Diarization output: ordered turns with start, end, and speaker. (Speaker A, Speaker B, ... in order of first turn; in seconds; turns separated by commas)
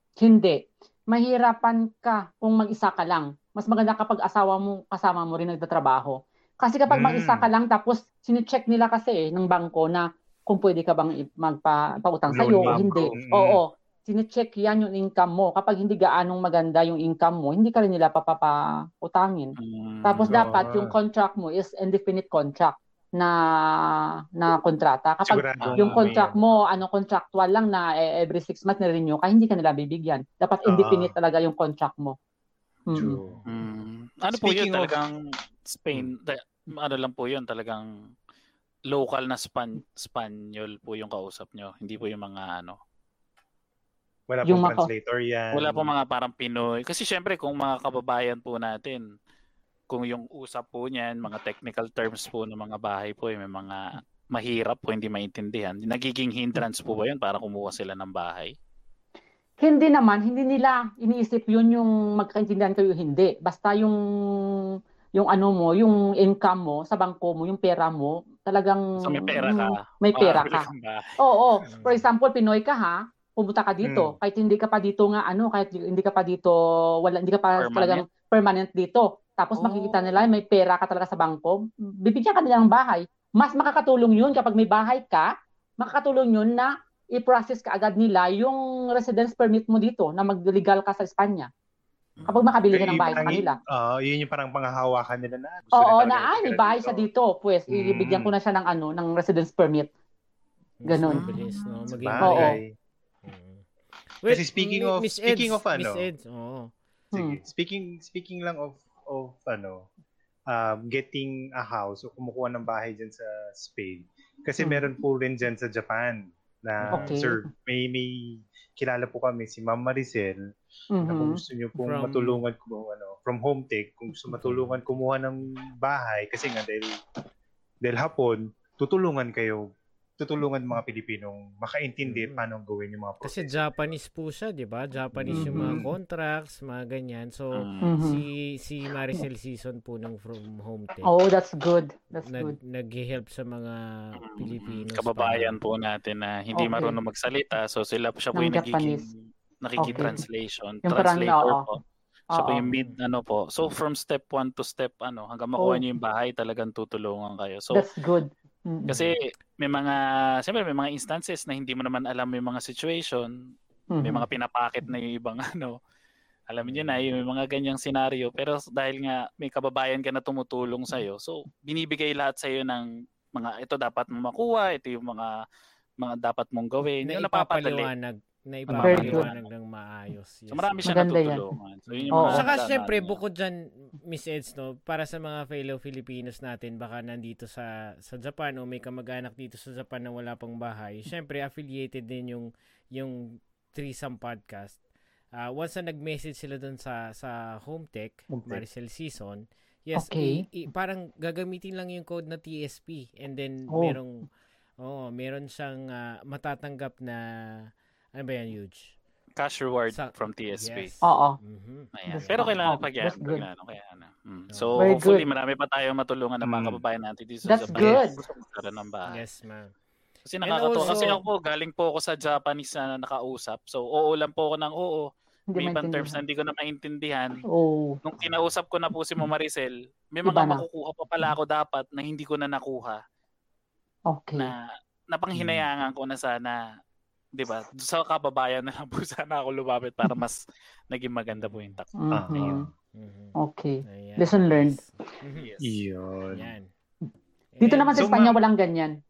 Speaker A: 0.2-32.1, Speaker B: 6.9-7.5, Speaker B: 12.3-13.6, Speaker C: 12.3-13.1, Speaker C: 19.6-20.6, Speaker B: 20.2-20.9, Speaker B: 25.2-26.3, Speaker C: 25.6-26.2, Speaker B: 30.6-31.1, Speaker A: 32.9-33.2, Speaker B: 32.9-33.4, Speaker D: 33.2-33.5, Speaker C: 33.5-35.2, Speaker B: 34.3-35.0, Speaker C: 35.7-37.9, Speaker C: 38.9-42.8, Speaker B: 44.3-45.9, Speaker A: 44.5-44.9, Speaker C: 45.5-49.0, Speaker C: 49.9-58.5, Speaker A: 59.6-70.7, Speaker C: 69.0-71.2, Speaker A: 71.2-91.5, Speaker D: 71.7-72.1, Speaker B: 73.8-74.1, Speaker C: 77.6-78.0, Speaker C: 79.5-80.2, Speaker C: 92.2-93.0, Speaker A: 92.3-93.6, Speaker B: 92.7-97.1, Speaker A: 95.7-99.9, Speaker B: 97.7-98.3, Speaker D: 100.8-102.6, Speaker A: 100.8-101.3, Speaker C: 101.1-101.9, Speaker B: 101.9-102.6, Speaker A: 102.2-102.6, Speaker D: 103.2-103.6, Speaker D: 104.2-106.7, Speaker B: 104.2-106.1, Speaker B: 107.1-109.9, Speaker A: 107.1-107.4, Speaker B: 110.5-120.4, Speaker D: 116.8-117.2, Speaker A: 116.9-117.4, Speaker A: 120.9-121.4, Speaker B: 121.0-127.0, Speaker D: 121.8-122.4, Speaker D: 124.4-124.8, Speaker B: 127.8-129.7, Speaker B: 130.2-133.6, Speaker D: 132.0-132.4, Speaker D: 133.2-141.1, Speaker B: 135.2-135.9, Speaker A: 135.3-135.8, Speaker C: 137.5-138.0, Speaker A: 137.8-138.2, Speaker A: 141.0-142.6, Speaker D: 142.2-145.6, Speaker C: 144.2-151.8, Speaker A: 146.6-146.9, Speaker A: 148.3-149.0, Speaker A: 149.8-150.2, Speaker D: 149.9-150.2, Speaker A: 150.8-151.7, Speaker C: 152.3-157.9, Speaker A: 152.3-152.7, Speaker A: 155.6-155.8, Speaker A: 157.7-159.1, Speaker C: 158.9-163.3, Speaker A: 163.9-164.3, Speaker C: 164.0-165.8, Speaker C: 166.5-175.3, Speaker D: 166.7-167.0, Speaker C: 176.0-177.9, Speaker D: 177.0-181.0, Speaker B: 178.7-179.2, Speaker C: 178.8-179.4, Speaker A: 178.8-179.3, Speaker C: 180.5-183.2, Speaker A: 180.8-181.4, Speaker B: 182.0-182.4, Speaker A: 182.1-182.5, Speaker D: 182.3-194.8, Speaker D: 195.3-204.2, Speaker B: 198.3-198.6, Speaker A: 199.9-200.4, Speaker A: 203.7-204.0, Speaker D: 204.8-207.2, Speaker D: 208.2-208.9, Speaker C: 209.4-210.9, Speaker D: 209.9-212.7, Speaker A: 211.0-211.4, Speaker C: 211.9-219.2, Speaker A: 212.1-213.4, Speaker D: 214.5-215.0, Speaker A: 214.8-215.2, Speaker B: 216.4-216.8, Speaker A: 217.5-218.2, Speaker D: 219.1-219.7, Speaker C: 220.2-225.0, Speaker D: 220.4-221.2, Speaker A: 220.8-221.1, Speaker A: 225.5-226.2, Speaker C: 225.6-227.4, Speaker A: 227.5-228.0, Speaker C: 228.0-233.0, Speaker A: 230.2-230.6, Speaker A: 234.1-234.5, Speaker C: 234.4-236.6, Speaker B: 235.3-235.7, Speaker C: 237.3-241.9, Speaker D: 241.3-241.8, Speaker A: 242.0-242.7, Speaker B: 242.1-242.7, Speaker D: 242.9-245.5, Speaker A: 243.4-244.8, Speaker C: 245.3-245.8, Speaker B: 245.6-246.5, Speaker D: 246.3-246.7, Speaker D: 247.5-248.0, Speaker A: 247.6-248.9, Speaker B: 247.9-248.4